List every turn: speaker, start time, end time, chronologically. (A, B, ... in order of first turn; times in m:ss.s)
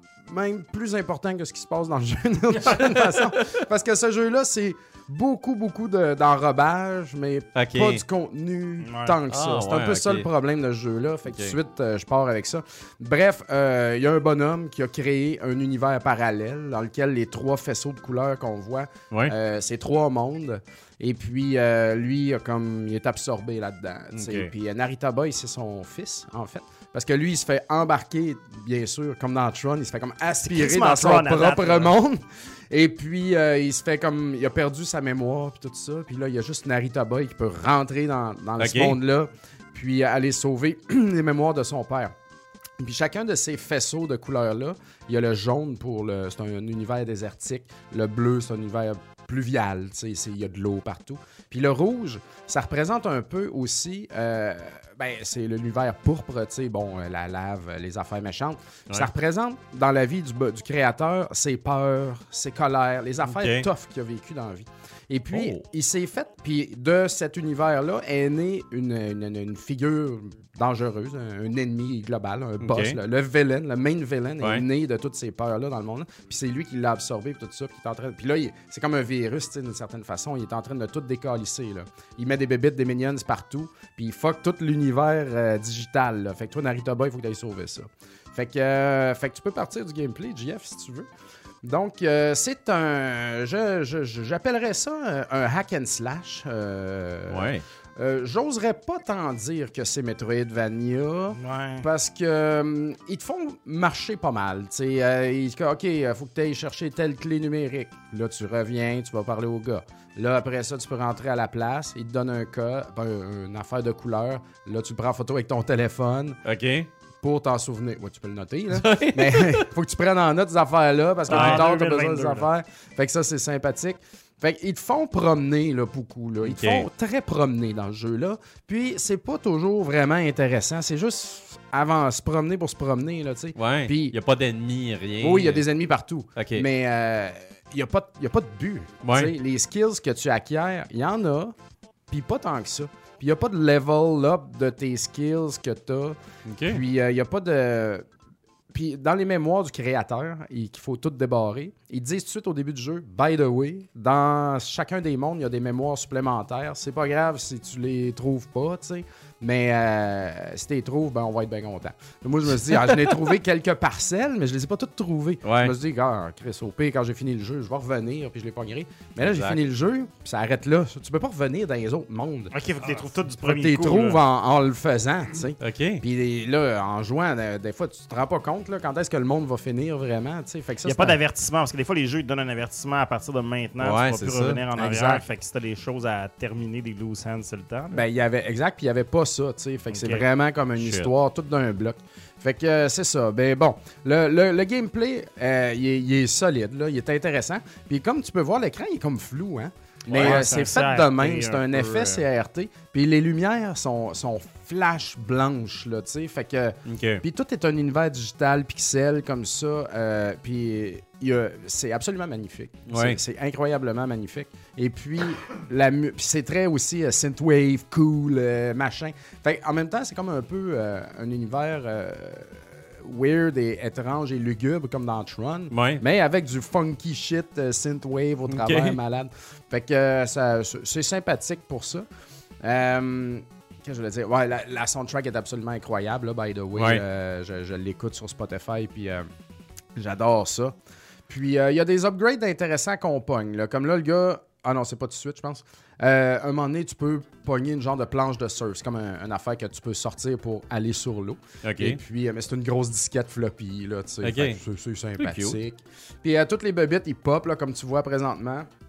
0:00.3-0:42.1 A
0:07.5-0:08.0 B
0:08.8-0:09.2 C
0:09.3-0:10.3 B
0:11.3-0:11.6 B
0:24.1-0:24.5 B
0:30.4-0:31.9 C
0:38.6-0:39.0 B
0:42.8-1:31.1 A
1:03.3-1:03.7 B
1:05.3-1:05.6 B
1:12.6-1:13.0 B
1:31.6-1:56.4 A
1:37.3-1:37.6 B
1:41.4-1:41.8 C
1:56.4-1:56.9 B
1:57.2-2:14.2 A
1:58.7-1:59.7 B
2:01.3-2:02.5 C
2:01.3-2:01.6 B
2:06.4-2:06.9 B
2:13.6-2:15.6 B
2:15.2-2:21.5 A
2:16.4-2:16.6 B
2:19.0-2:19.3 B
2:22.1-2:28.0 A
2:26.4-2:26.8 B
2:28.7-2:52.5 A
2:42.6-2:43.2 B
2:45.4-2:45.7 B
2:49.2-2:49.6 B
2:52.5-2:54.2 C
2:53.3-3:01.2 A
2:55.6-2:56.0 B
3:00.8-3:08.0 C
3:03.8-3:04.6 B
3:04.7-3:05.2 A
3:07.9-3:52.0 A
3:09.9-3:10.2 C
3:10.8-3:11.1 B
3:20.1-3:22.2 C
3:20.1-3:20.4 B
3:26.8-3:27.2 B
3:32.9-3:33.2 B
3:45.7-3:46.0 B
3:48.5-3:49.0 B
3:52.6-3:59.2 A
3:56.7-3:57.0 B
4:00.0-4:00.7 A
4:01.3-4:18.7 A
4:11.6-4:12.0 B
4:14.2-4:14.6 B
4:15.2-4:15.6 B